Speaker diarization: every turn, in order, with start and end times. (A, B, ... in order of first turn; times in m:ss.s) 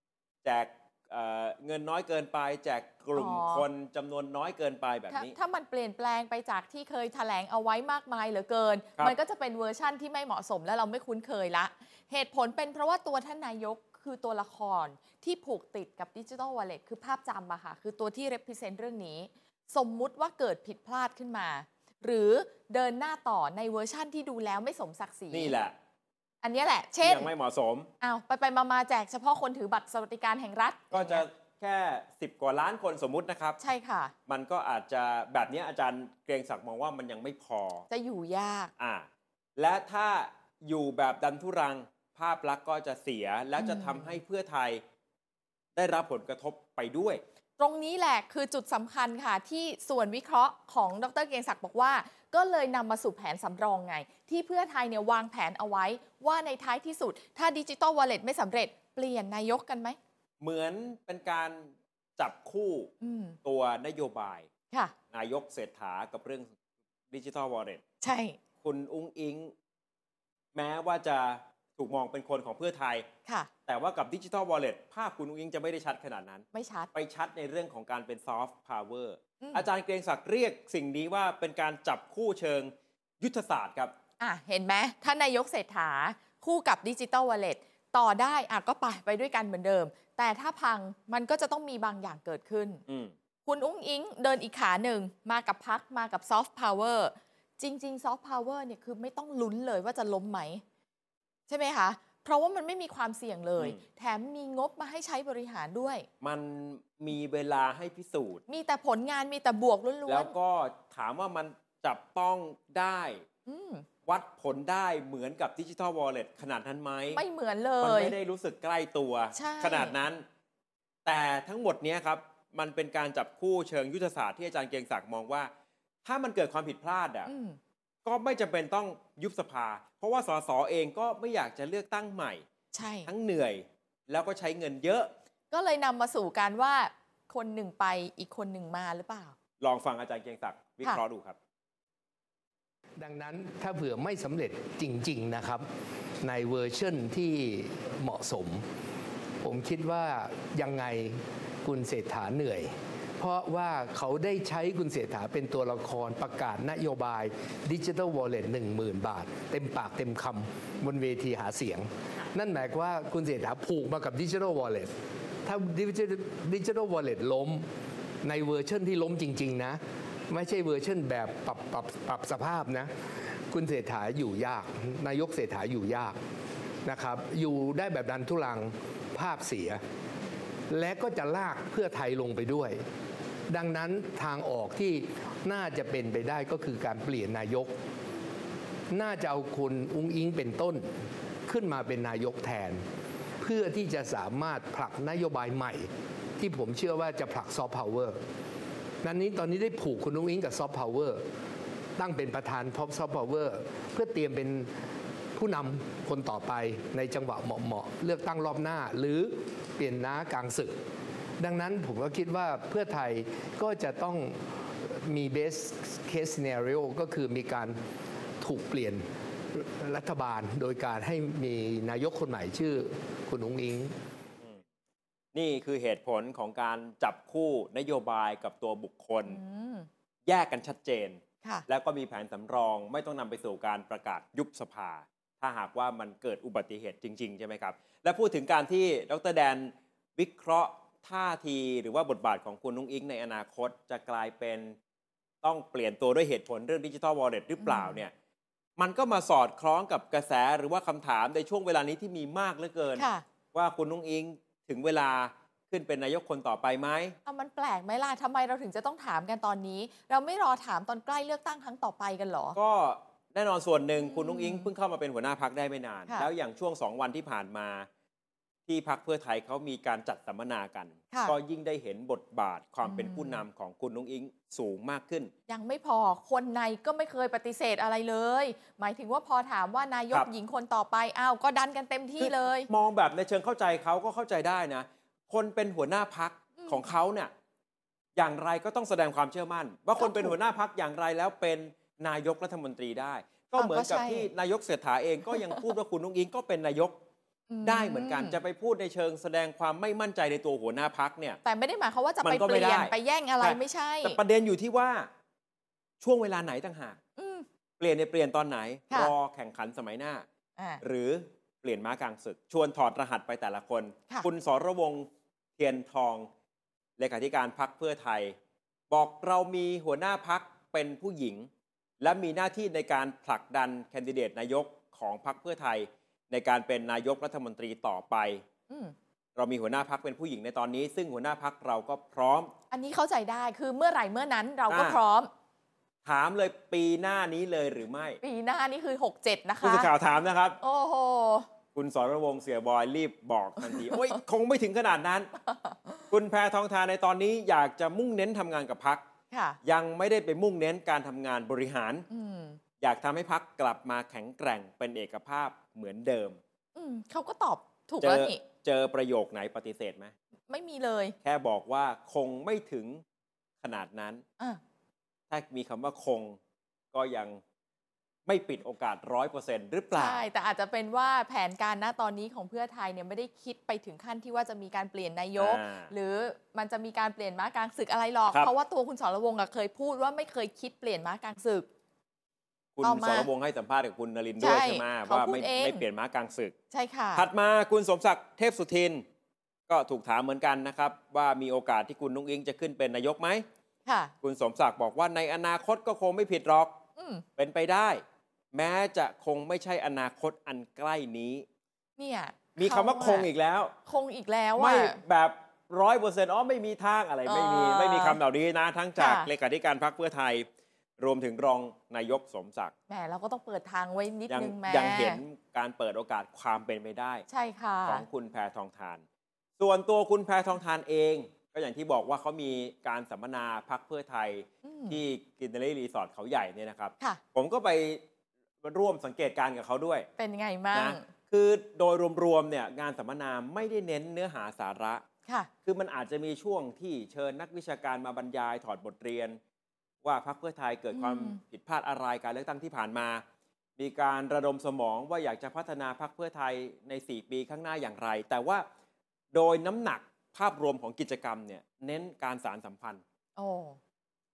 0:00.4-0:05.3 A
0:03.1-0:03.6 B
0:05.1-0:25.5 B
0:25.3-0:25.7 A
0:26.4-0:27.3 B
0:27.0-0:27.9 A
0:28.0-0:31.2 B
0:30.9-0:33.6 A
0:33.6-0:34.1 B
0:34.3-0:37.8 A
0:37.9-0:38.7 B
0:38.8-0:44.8 A
0:43.6-0:44.2 B
0:45.8-0:47.2 A
0:47.6-1:00.0 B
1:00.4-1:02.9 A
1:03.0-1:03.4 B
1:03.4-1:04.5 A
1:05.1-1:06.5 A
1:07.1-1:07.8 A
1:08.0-1:08.4 B
1:08.6-1:09.5 A
1:10.5-1:13.1 A
1:13.6-1:23.9 A
1:16.5-1:16.9 B
1:19.4-1:19.7 B
1:24.2-1:32.8 B
1:32.9-1:33.1 A
1:33.4-1:40.6 B
1:41.5-1:46.1 B
1:46.2-1:48.4 A
1:48.5-1:50.3 B
1:50.1-1:53.2 A
1:53.4-1:53.8 B
1:54.0-1:57.2 A
1:57.1-1:58.2 B
1:57.8-2:00.2 A
1:59.3-2:00.0 B
2:01.0-2:05.5 A
2:06.0-2:07.3 A
2:07.2-2:07.6 B
2:08.0-2:12.4 A
2:12.7-2:13.1 B
2:13.1-2:15.1 A
2:15.5-2:19.3 B
2:19.6-2:21.4 A
2:23.0-2:25.7 C
2:26.2-2:28.6 C
2:29.4-2:44.9 C
2:45.4-2:47.7 C
2:48.2-2:56.2 C
2:56.8-2:59.8 C
3:00.7-3:02.8 C
3:03.5-3:07.7 C
3:08.9-3:12.8 C
3:13.4-3:18.2 C
3:19.0-3:21.2 C
3:22.0-3:24.7 C
3:25.3-3:30.8 C
3:31.4-3:37.8 C
3:38.4-3:44.0 C
3:45.3-3:49.4 A
3:49.2-3:49.9 B
3:50.2-4:04.8 A
4:05.4-4:08.1 A
4:07.6-4:08.0 B
4:08.8-4:17.2 A
4:13.0-4:13.2 B
4:17.2-4:22.6 B
4:22.6-4:27.9 A
4:24.0-4:24.7 B
4:28.7-4:35.3 A
4:32.8-4:33.4 B
4:35.5-4:42.7 B
4:42.2-4:47.3 A
4:46.6-4:46.9 B
4:48.2-4:57.0 A
4:50.0-4:50.3 B
4:53.6-4:54.3 B
4:55.3-4:55.7 B
4:57.5-4:58.4 B
4:57.6-5:01.4 A
5:01.4-5:04.2 B
5:02.2-5:05.1 A
5:06.0-5:07.0 A
5:07.2-5:07.4 B
5:07.8-5:10.2 A
5:10.8-5:16.3 A
5:17.0-5:18.4 A
5:18.9-5:21.5 A
5:22.0-5:28.4 A
5:28.7-5:28.9 B
5:29.4-5:32.5 A
5:32.7-5:35.3 B
5:34.7-5:35.0 A
5:36.0-5:38.2 A
5:38.2-5:39.9 B
5:39.6-5:40.6 A
5:40.6-5:41.5 B
5:41.7-5:45.3 A
5:43.6-5:44.2 B
5:45.4-5:46.1 B
5:46.1-5:49.0 A
5:49.3-5:49.6 B
5:49.6-5:52.1 A
5:52.1-5:52.6 B
5:52.8-5:56.4 A
5:56.7-5:58.4 B
5:58.0-6:00.1 A
6:00.5-6:01.2 B
6:01.2-6:03.0 A
6:03.6-6:04.2 A
6:05.3-6:06.4 A
6:06.9-6:07.4 A
6:08.2-6:10.2 A
6:09.9-6:21.7 B
6:15.4-6:15.9 A
6:22.8-6:26.5 A
6:22.8-6:23.3 B
6:24.4-6:25.8 B
6:26.7-6:27.2 B
6:27.1-6:29.0 A
6:29.7-6:33.4 A
6:33.8-6:34.1 B
6:34.2-6:36.8 A
6:37.0-6:37.2 B
6:37.4-6:41.4 A
6:42.0-6:43.3 B
6:42.6-6:43.7 A
6:43.8-6:45.0 B
6:44.6-6:50.5 A
6:47.2-6:48.2 B
6:49.0-6:49.3 B
6:51.0-6:52.7 A
6:52.9-6:55.2 B
6:54.3-6:57.2 A
6:57.3-6:58.0 B
6:57.8-6:59.0 A
6:59.6-7:08.0 A
7:04.6-7:05.0 B
7:08.6-7:10.1 A
7:10.2-7:11.1 B
7:10.7-7:15.0 A
7:15.6-7:19.4 A
7:20.0-7:23.2 A
7:20.9-7:21.4 B
7:23.8-7:28.6 A
7:29.3-7:33.0 A
7:33.4-7:33.8 B